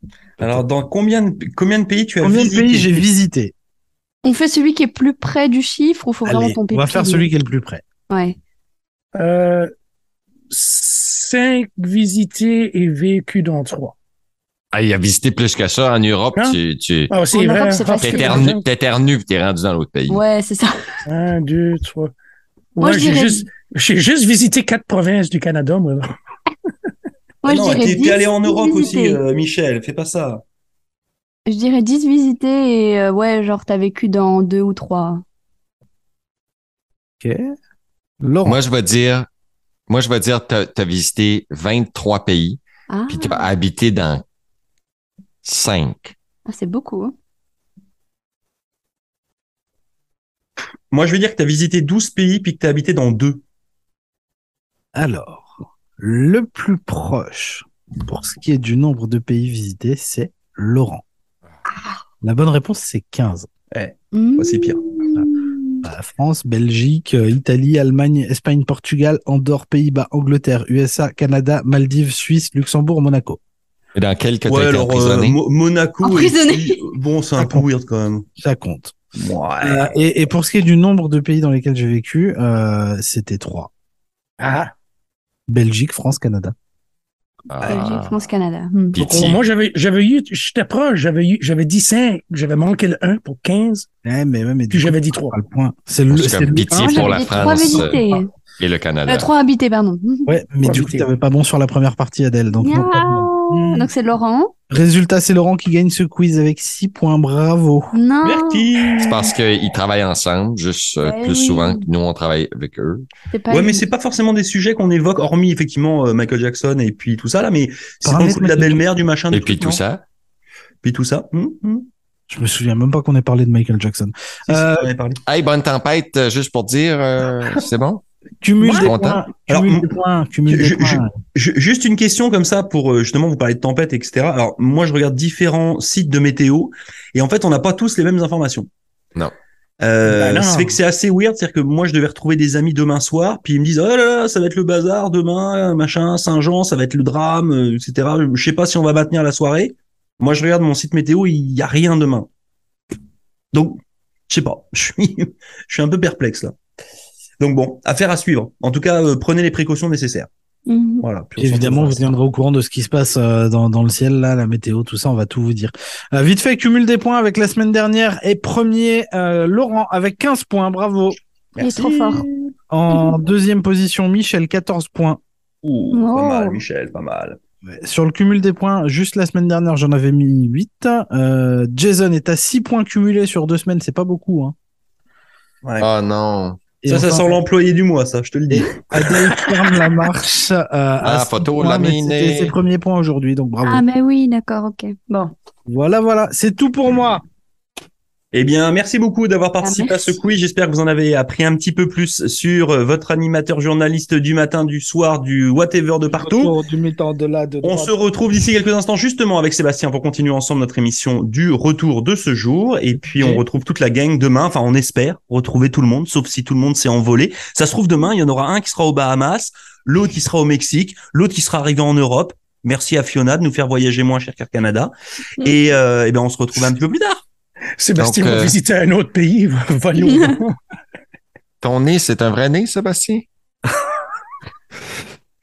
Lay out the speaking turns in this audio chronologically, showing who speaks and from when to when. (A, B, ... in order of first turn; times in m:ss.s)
0:00.4-0:03.0 A
0:02.2-0:03.5 B
0:04.2-0:07.3 C
0:06.2-0:07.8 B
0:08.1-0:08.4 C
0:09.2-0:09.7 D
0:10.5-0:14.0 D
0:14.7-0:17.1 E
0:16.4-0:18.6 D
0:17.3-0:18.5 C
0:18.0-0:20.2 E
0:20.1-0:20.7 C
0:21.1-0:22.1 D
0:22.8-0:23.5 C
0:22.8-0:26.1 D
0:27.4-0:29.2 C
0:27.5-0:30.4 A
0:31.5-0:35.2 C
0:37.2-0:37.5 B
0:38.2-0:38.6 B
0:38.4-0:39.3 E
0:39.9-0:44.2 E
0:42.9-0:43.5 C
0:45.4-0:46.2 E
0:46.5-0:47.2 C
0:50.9-0:53.4 A
0:55.0-1:01.0 B
1:01.7-1:02.0 C
1:02.2-1:03.5 B
1:03.7-1:04.8 A
1:04.1-1:05.9 C
1:05.8-1:13.4 B
1:14.0-1:15.4 E
1:14.4-1:18.2 A
1:16.0-1:16.8 C
1:17.4-1:17.7 B
1:18.4-1:19.0 B
1:19.2-1:20.0 A
1:19.6-1:23.7 B
1:24.4-1:24.7 D
1:25.5-1:26.5 B
1:27.5-1:28.2 E
1:27.6-1:29.1 C
1:29.0-1:29.4 E
1:29.0-1:29.4 B
1:29.2-1:33.9 D
1:34.0-1:38.2 B
1:34.7-1:35.4 D
1:36.1-1:38.0 E
1:36.8-1:38.3 C
1:38.6-1:39.3 E
1:39.1-1:40.4 C
1:40.3-1:43.9 B
1:40.6-1:41.1 D
1:42.6-1:44.5 C
1:44.7-1:47.9 B
1:47.9-1:48.7 C
1:48.2-1:49.3 A
1:49.0-1:53.1 E
1:51.0-1:51.8 C
1:53.3-1:53.9 C
1:53.5-1:59.8 A
1:58.0-1:58.8 B
1:59.3-2:00.0 E
2:00.8-2:01.9 A
2:02.3-2:04.9 B
2:04.5-2:05.2 A
2:05.3-2:08.0 E
2:08.4-2:11.1 B
2:08.6-2:08.9 A
2:08.8-2:09.2 E
2:09.5-2:09.9 A
2:10.5-2:18.7 A
2:19.8-2:32.3 A
2:20.1-2:20.8 D
2:33.5-2:33.8 A
2:34.3-2:36.6 A
2:37.4-2:40.3 A
2:40.7-2:41.0 C
2:41.0-2:42.0 A
2:41.4-2:51.2 B
2:51.6-2:52.5 A
2:51.6-2:52.3 C
2:52.7-2:55.2 B
2:55.6-2:57.4 A
2:55.9-2:56.6 C
2:57.6-3:04.6 B
3:05.6-3:05.9 A
3:05.8-3:06.6 E
3:06.8-3:07.4 B
3:06.9-3:09.0 A
3:08.5-3:13.8 B
3:11.0-3:12.6 E
3:13.6-3:15.3 C
3:15.7-3:17.2 B
3:18.3-3:26.6 A
3:19.6-3:20.2 C
3:26.1-3:27.9 B
3:27.6-3:47.2 A
3:33.2-3:33.4 B
3:47.8-3:50.6 D
3:48.0-3:48.6 E
3:50.0-3:50.4 C
3:51.6-3:53.2 E